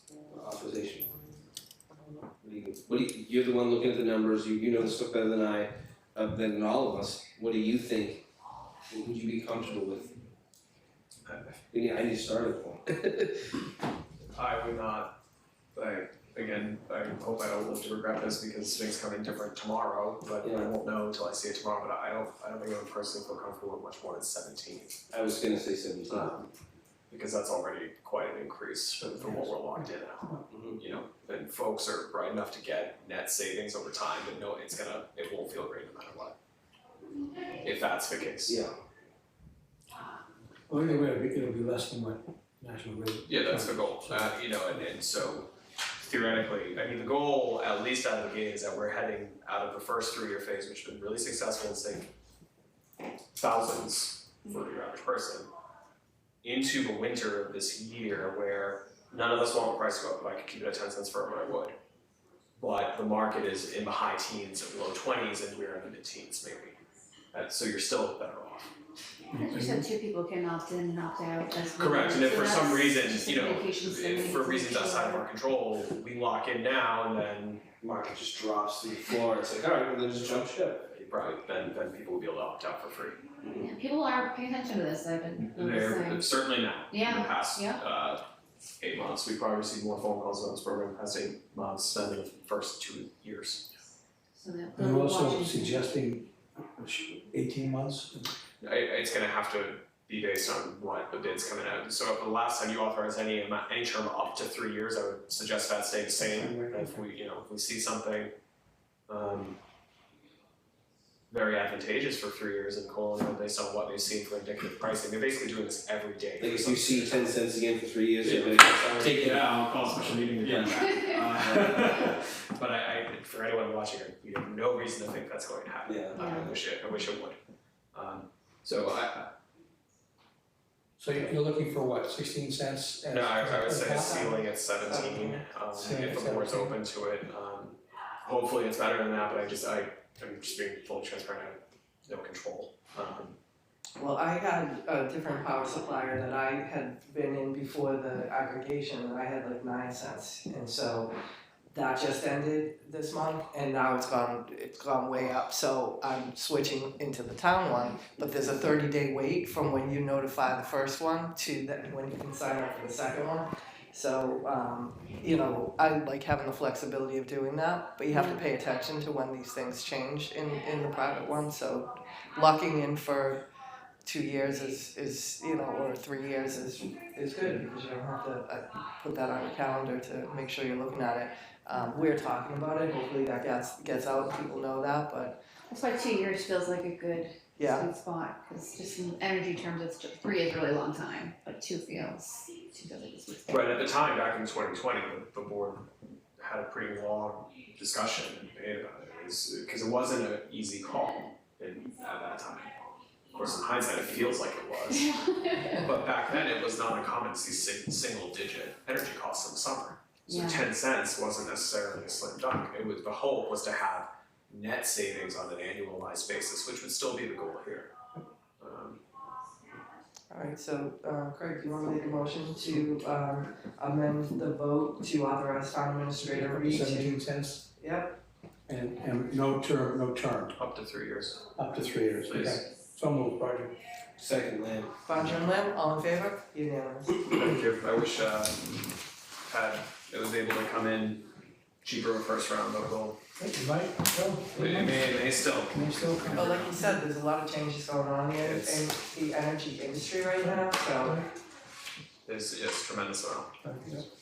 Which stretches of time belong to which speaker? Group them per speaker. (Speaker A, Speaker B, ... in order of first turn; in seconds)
Speaker A: 0.3-1.1, 2.4-8.2, 8.9-10.2, 11.7-13.6, 20.4-20.7, 25.1-26.3, 30.5-30.8, 38.5-38.7, 77.8-80.9, 83.4-83.7, 116.4-119.5, 120.4-121.8, 125.8-126.5, 234.2-234.9
Speaker B: 11.3-11.6, 14.3-15.1, 15.7-25.0, 26.1-26.5, 27.1-36.4, 37.6-38.6, 43.2-45.5, 46.0-52.1, 53.3-55.5, 56.4-61.8, 62.6-66.8, 67.3-68.7, 71.8-77.7, 80.9-83.3, 85.4-88.2, 88.8-93.7, 98.6-108.3, 109.1-109.6, 111.3-117.3, 118.2-127.4, 127.9-129.3, 133.1-143.3, 193.5-202.7, 203.3-205.1, 205.7-217.9, 218.6-219.0, 230.5-231.5, 232.2-232.7, 237.3-238.6, 239.4-241.3, 241.8-243.2, 244.5-246.7, 248.4-248.9, 252.2-253.5
Speaker C: 29.2-29.5, 40.7-44.4, 69.3-69.8, 94.8-98.3, 106.2-107.0, 131.0-134.3, 135.8-136.8, 226.3-227.7, 228.7-230.5, 231.6-233.7, 243.4-246.8, 253.6-254.0
Speaker D: 69.3-75.2, 83.5-86.2, 86.9-87.8, 94.3-95.9, 126.2-126.5, 168.1-168.4, 185.7-193.7, 204.9-205.9, 210.3-210.7
Speaker E: 134.0-135.4, 144.0-151.1, 151.7-173.4, 174.0-185.4, 187.6-187.9, 220.3-227.1, 227.8-228.2, 235.0-237.2, 246.3-251.2